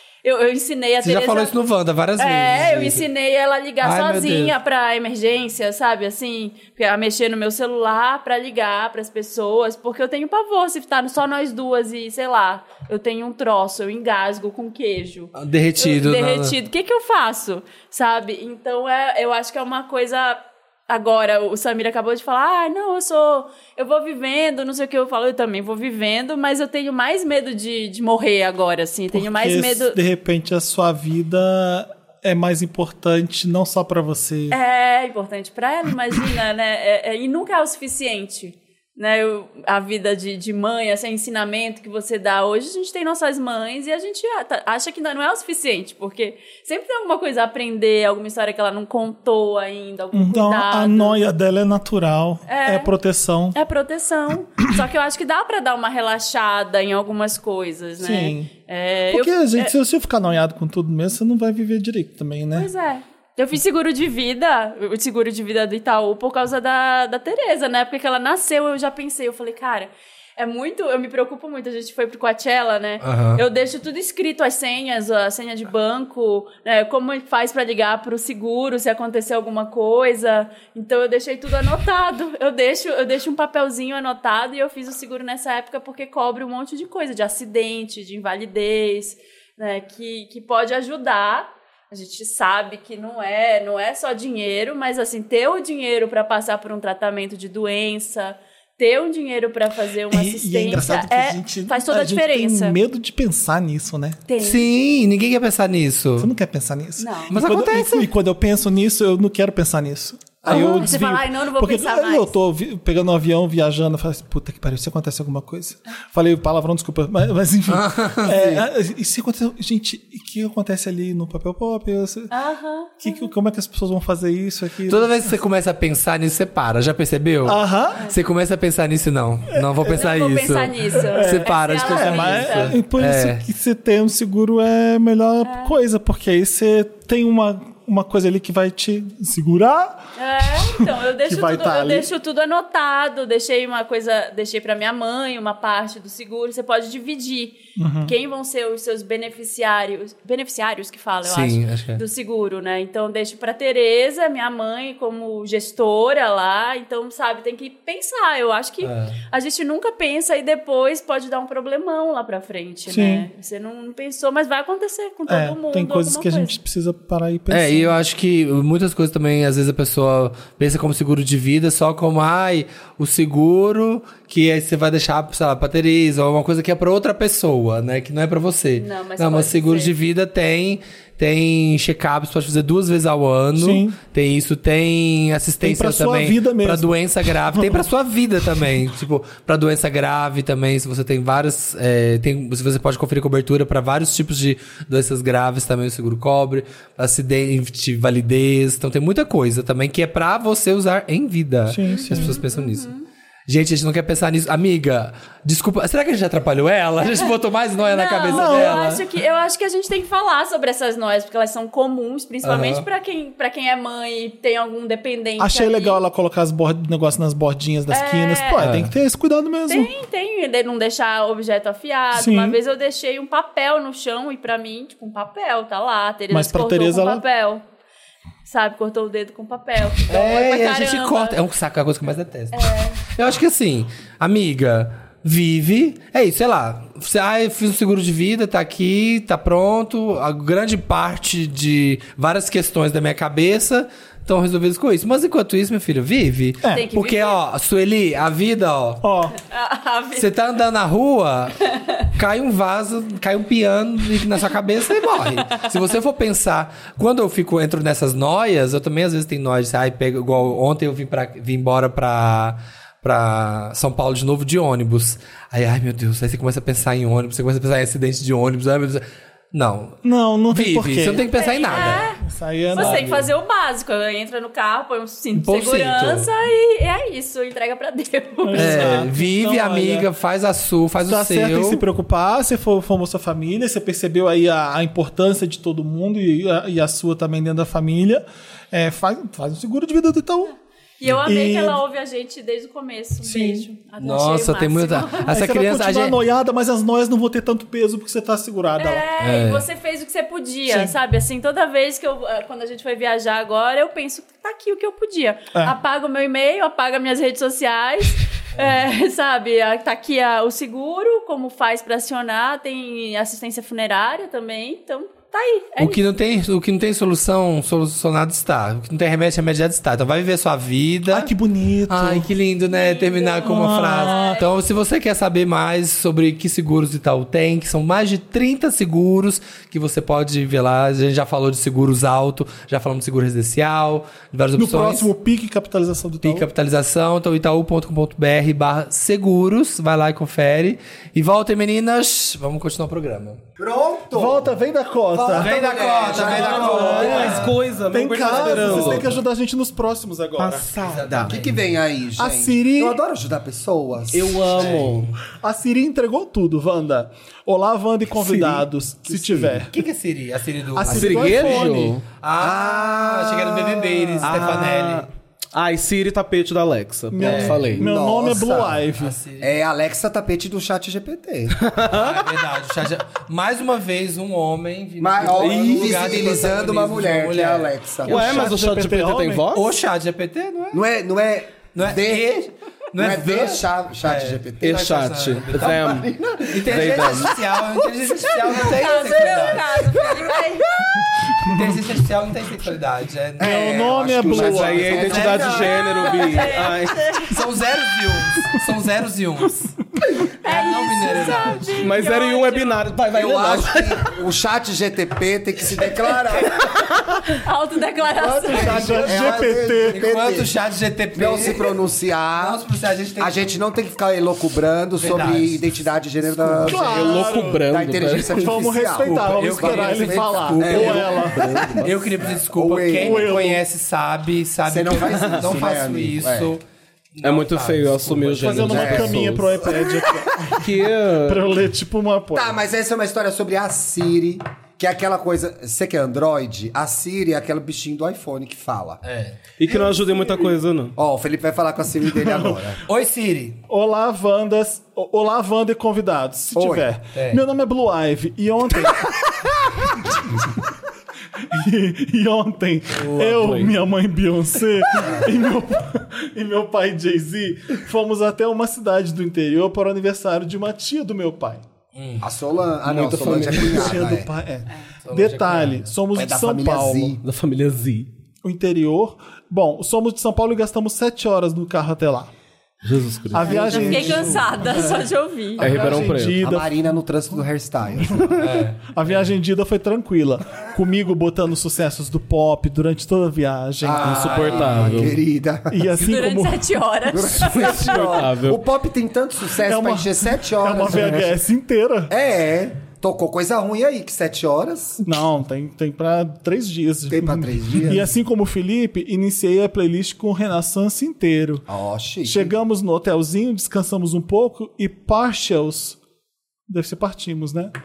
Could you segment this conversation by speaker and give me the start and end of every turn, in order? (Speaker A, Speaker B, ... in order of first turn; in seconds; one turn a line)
Speaker A: 0.2-1.5
Speaker B: 1.0-3.0
Speaker A: 2.2-30.0
Speaker B: 3.8-4.6
Speaker B: 15.3-16.6
Speaker C: 29.1-34.6
Speaker A: 34.5-51.2
Speaker C: 50.1-53.6
Speaker A: 52.5-52.9
Speaker A: 53.5-59.7
Speaker C: 58.0-58.5
Speaker C: 59.1-62.7
Speaker A: 62.6-102.8
Speaker B: 73.0-73.4
Speaker C: 100.1-104.2
Speaker A: 104.3-104.7
Speaker B: 104.4-106.3
Speaker C: 106.2-122.3
Speaker A: 107.0-107.4
Speaker B: 107.3-108.1
Speaker A: 110.5-112.3
Speaker D: 110.5-110.9
Speaker B: 117.7-118.7
Speaker A: 122.3-123.3
Speaker C: 123.0-125.3
Speaker B: 124.9-133.4
Speaker C: 127.5-128.1
Speaker A: 129.8-132.8
Speaker C: 131.0-140.1
Speaker A: 135.4-135.7
Speaker A: 140.2-166.6
Speaker C: 140.9-142.1
Speaker C: 147.8-148.1
Speaker B: 151.3-152.0
Speaker B: 158.8-159.2
Speaker C: 162.9-163.3
Speaker C: 165.3-167.9
Speaker B: 167.5-202.9
Speaker A: 178.8-179.9
Speaker C: 183.6-184.0
Speaker C: 185.6-187.8
Speaker C: 201.7-202.4
Speaker A: 201.8-203.1
Speaker B: 203.5-209.0
Speaker A: 207.0-216.0
Speaker C: 208.3-209.0
Speaker B: 212.4-212.8
Speaker C: 215.4-219.9
Speaker A: 217.9-218.7
Speaker B: 218.6-218.9
Speaker A: 219.7-227.6
Speaker C: 222.2-222.6
Speaker C: 226.3-227.2
Speaker A: 228.5-231.4
Speaker B: 230.1-249.0
Speaker A: 232.5-233.0
Speaker A: 246.7-247.4
Speaker C: 249.0-249.4
Speaker A: 249.3-250.3
Speaker B: 250.2-272.1
Speaker C: 270.0-273.1
Speaker A: 271.1-272.2
Speaker A: 272.7-279.1
Speaker B: 272.8-273.3
Speaker B: 275.4-276.3
Speaker C: 278.4-280.1
Speaker B: 278.6-281.8
Speaker C: 281.1-290.5
Speaker A: 291.0-295.4
Speaker C: 291.1-291.8
Speaker C: 293.2-293.7
Speaker B: 294.0-296.2
Speaker C: 295.3-299.1
Speaker A: 298.8-316.0
Speaker B: 299.2-299.6
Speaker C: 300.7-300.9
Speaker B: 308.6-308.8
Speaker B: 315.8-321.3
Speaker C: 321.1-322.3
Speaker B: 321.9-335.1
Speaker A: 322.7-324.5
Speaker C: 323.4-324.4
Speaker C: 334.6-336.5
Speaker B: 336.2-343.4
Speaker E: 343.6-344.5
Speaker C: 344.1-345.6
Speaker E: 345.1-347.4
Speaker B: 345.3-347.6
Speaker C: 346.1-350.7
Speaker D: 346.3-349.1
Speaker B: 348.2-349.1
Speaker D: 350.4-351.4
Speaker B: 350.8-351.6
Speaker E: 351.2-354.8
Speaker C: 352.2-353.0
Speaker D: 354.1-355.1
Speaker B: 354.5-355.2
Speaker C: 355.3-359.7
Speaker D: 358.1-358.6
Speaker E: 359.1-359.6
Speaker B: 359.7-361.7
Speaker C: 360.8-362.0
Speaker D: 360.9-362.0
Speaker B: 362.2-365.1
Speaker E: 362.4-364.4
Speaker D: 364.2-367.9
Speaker C: 367.1-369.2
Speaker B: 367.2-367.7
Speaker E: 367.7-368.8
Speaker B: 369.0-369.5
Speaker E: 369.4-371.6
Speaker D: 371.5-372.3
Speaker B: 371.9-377.8
Speaker E: 375.0-378.5
Speaker D: 375.3-376.2
Speaker D: 378.1-379.6
Speaker C: 378.1-379.6
Speaker B: 379.5-380.8
Speaker E: 380.7-382.3
Speaker B: 381.7-390.2
Speaker E: 383.0-384.9
Speaker D: 384.6-386.1
Speaker E: 385.6-387.3
Speaker D: 386.6-387.4
Speaker A: 388.4-390.9
Speaker C: 391.4-391.6
Speaker B: 391.4-396.0
Speaker E: 393.4-396.0
Speaker C: 393.4-395.1
Speaker D: 394.2-397.2
Speaker A: 395.6-397.4
Speaker B: 397.3-399.7
Speaker A: 400.4-402.9
Speaker B: 400.4-402.0
Speaker D: 401.8-404.1
Speaker E: 403.1-406.7
Speaker A: 407.2-408.9
Speaker E: 408.1-410.5
Speaker B: 408.5-411.8
Speaker C: 408.5-410.0
Speaker E: 411.1-412.6
Speaker B: 412.4-413.4
Speaker E: 413.2-423.5
Speaker B: 415.0-417.6
Speaker C: 416.6-417.6
Speaker D: 416.8-418.5
Speaker C: 418.2-421.5
Speaker B: 418.9-428.9
Speaker D: 421.4-421.9
Speaker C: 423.0-423.6
Speaker E: 424.7-426.6
Speaker D: 425.0-425.4
Speaker D: 427.2-429.6
Speaker C: 428.4-432.6
Speaker E: 428.7-430.1
Speaker D: 430.6-431.5
Speaker E: 432.3-439.0
Speaker B: 439.0-439.4
Speaker D: 439.6-440.9
Speaker E: 441.0-442.8
Speaker C: 442.2-442.6
Speaker B: 442.9-443.6
Speaker C: 443.7-449.5
Speaker E: 446.5-446.9
Speaker B: 447.1-447.4
Speaker C: 451.4-461.6
Speaker B: 453.0-453.6
Speaker D: 453.4-453.7
Speaker E: 455.0-455.3
Speaker B: 461.9-462.3
Speaker E: 462.2-464.3
Speaker D: 462.9-463.9
Speaker C: 463.6-467.2
Speaker B: 465.1-465.9
Speaker E: 466.1-467.2
Speaker D: 467.2-468.1
Speaker C: 468.4-472.3
Speaker D: 472.8-473.8
Speaker C: 473.3-477.4
Speaker E: 473.4-474.4
Speaker A: 473.4-475.7
Speaker D: 475.6-476.4
Speaker E: 475.7-478.6
Speaker C: 478.0-484.5
Speaker B: 478.4-479.4
Speaker E: 483.8-486.0
Speaker B: 484.0-485.1
Speaker D: 484.0-485.2
Speaker C: 485.7-486.7
Speaker A: 486.0-488.1
Speaker E: 487.1-491.3
Speaker D: 487.4-488.6
Speaker C: 489.6-492.1
Speaker E: 492.1-495.0
Speaker C: 495.0-501.7
Speaker E: 497.1-498.1
Speaker E: 501.7-502.5
Speaker C: 502.2-506.0
Speaker C: 506.7-507.7